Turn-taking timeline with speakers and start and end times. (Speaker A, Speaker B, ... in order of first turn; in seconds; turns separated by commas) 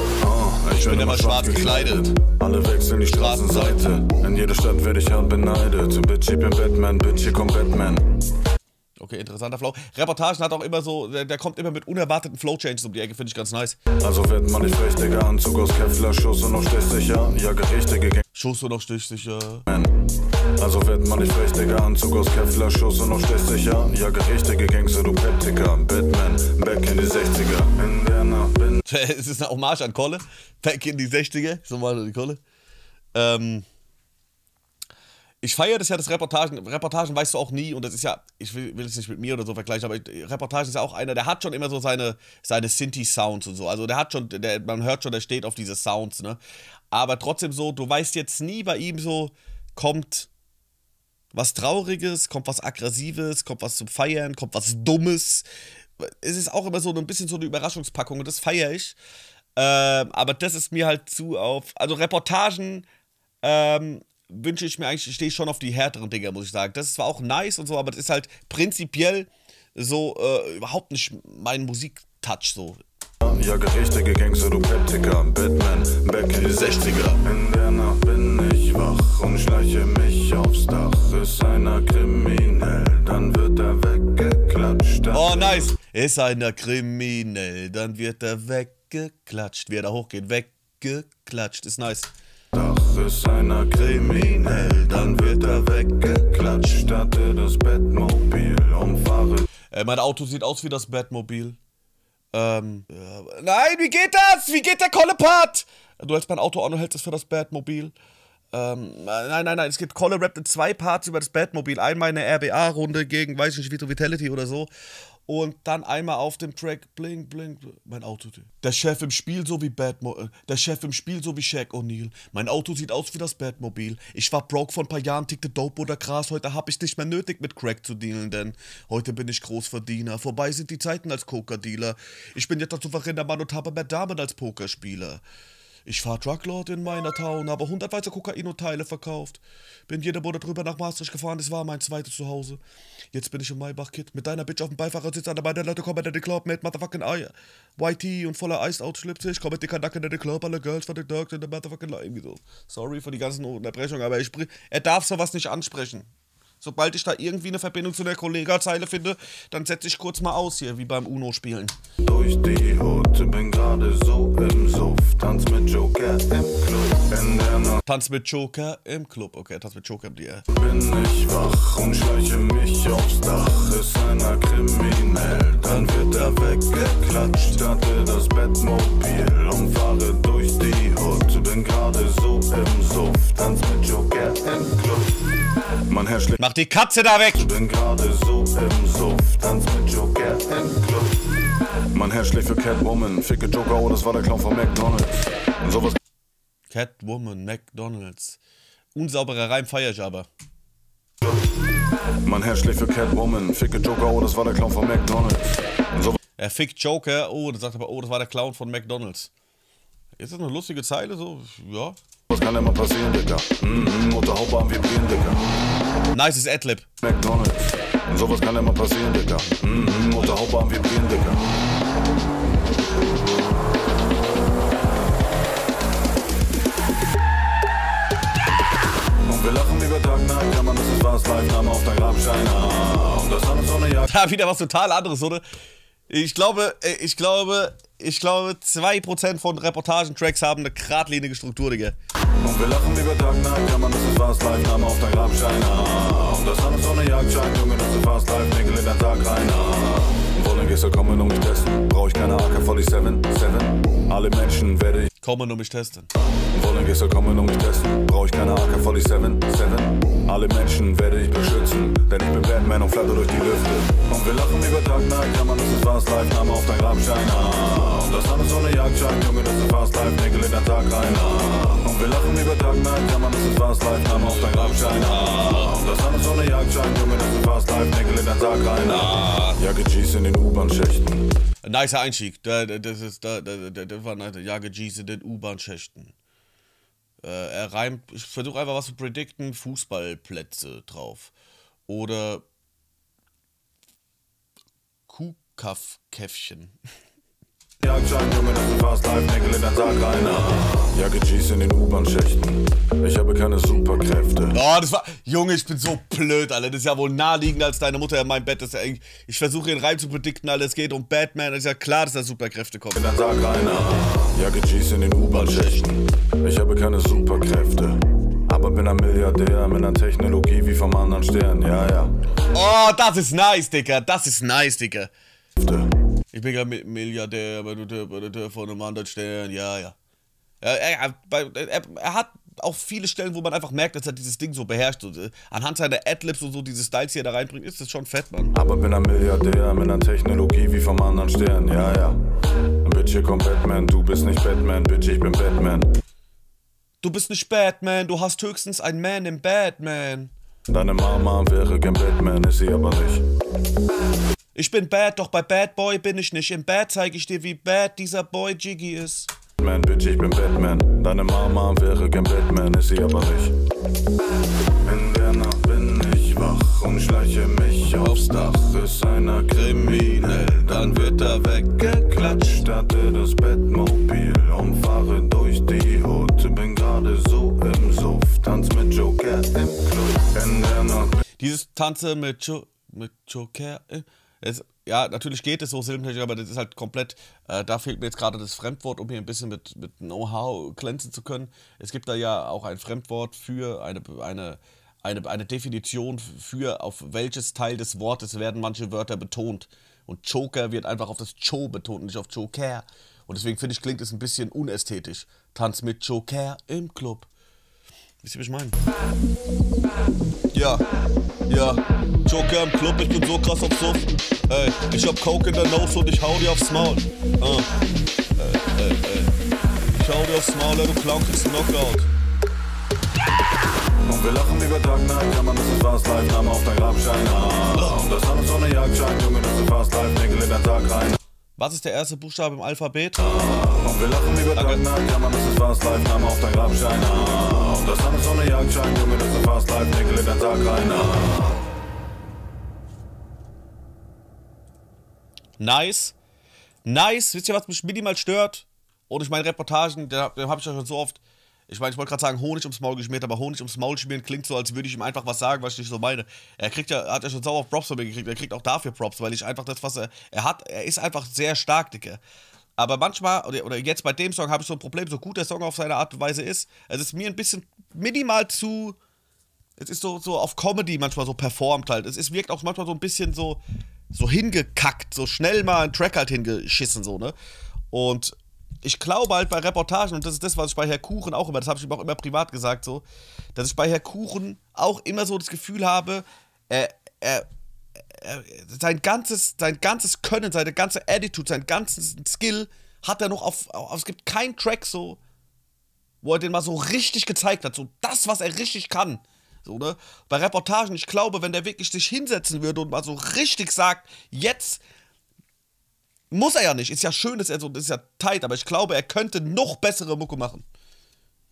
Speaker A: 0.2-8.1, Speaker B: 0.8-2.1, Speaker B: 3.1-4.0, Speaker B: 9.0-13.8, Speaker A: 14.0-18.2, Speaker B: 18.3-19.6, Speaker A: 19.7-19.9, Speaker A: 20.6-28.8, Speaker B: 28.8-32.4, Speaker B: 33.1-33.6, Speaker B: 35.4-46.4, Speaker B: 46.9-50.3, Speaker B: 51.3-55.5, Speaker B: 56.0-59.0, Speaker B: 59.5-62.9, Speaker B: 63.4-72.8, Speaker A: 73.2-85.7, Speaker B: 76.4-77.2, Speaker B: 85.1-92.1, Speaker A: 92.5-99.5, Speaker B: 93.7-96.2, Speaker B: 99.7-101.6, Speaker B: 102.3-107.9, Speaker B: 108.5-114.7, Speaker B: 115.3-135.2, Speaker B: 135.8-142.6, Speaker B: 143.1-156.1, Speaker B: 156.6-161.7, Speaker A: 162.0-167.8, Speaker B: 167.8-170.4, Speaker A: 170.5-185.2, Speaker B: 175.9-176.6, Speaker A: 185.9-186.4, Speaker B: 186.4-187.5, Speaker A: 187.3-191.2, Speaker A: 191.9-196.0, Speaker B: 196.7-198.4, Speaker B: 198.9-200.3, Speaker A: 202.2-206.2, Speaker B: 206.4-209.3, Speaker B: 210.2-212.0, Speaker A: 212.3-215.4, Speaker B: 216.1-216.9, Speaker A: 217.0-221.4, Speaker A: 229.2-234.1, Speaker B: 234.0-235.4, Speaker B: 236.1-241.9, Speaker A: 242.4-255.1, Speaker B: 255.2-256.1, Speaker A: 256.5-281.2, Speaker B: 274.0-275.8, Speaker B: 278.8-279.6, Speaker B: 281.6-286.1, Speaker B: 287.2-291.3, Speaker B: 291.9-292.4, Speaker B: 295.1-296.7, Speaker A: 297.8-304.6, Speaker B: 304.5-313.1, Speaker A: 312.9-322.1, Speaker B: 315.3-315.8, Speaker B: 322.5-325.1, Speaker A: 325.6-325.9, Speaker B: 326.3-329.9, Speaker B: 330.6-338.5, Speaker A: 338.5-342.2, Speaker A: 342.8-345.9, Speaker B: 347.0-350.3, Speaker A: 350.7-353.2, Speaker B: 354.5-359.3, Speaker A: 359.6-363.5, Speaker A: 364.8-381.2, Speaker B: 369.5-372.6, Speaker B: 381.4-407.3, Speaker B: 408.2-408.8, Speaker B: 410.5-410.8, Speaker B: 411.5-417.7, Speaker B: 418.4-422.1, Speaker A: 424.1-431.2, Speaker B: 427.7-428.0, Speaker B: 431.6-433.3, Speaker A: 433.2-441.6, Speaker B: 434.5-434.8, Speaker B: 445.6-446.1, Speaker B: 446.8-462.2, Speaker B: 462.8-469.0, Speaker B: 469.8-477.4, Speaker B: 477.9-487.4, Speaker B: 488.0-495.2, Speaker B: 496.2-504.8, Speaker B: 506.3-510.6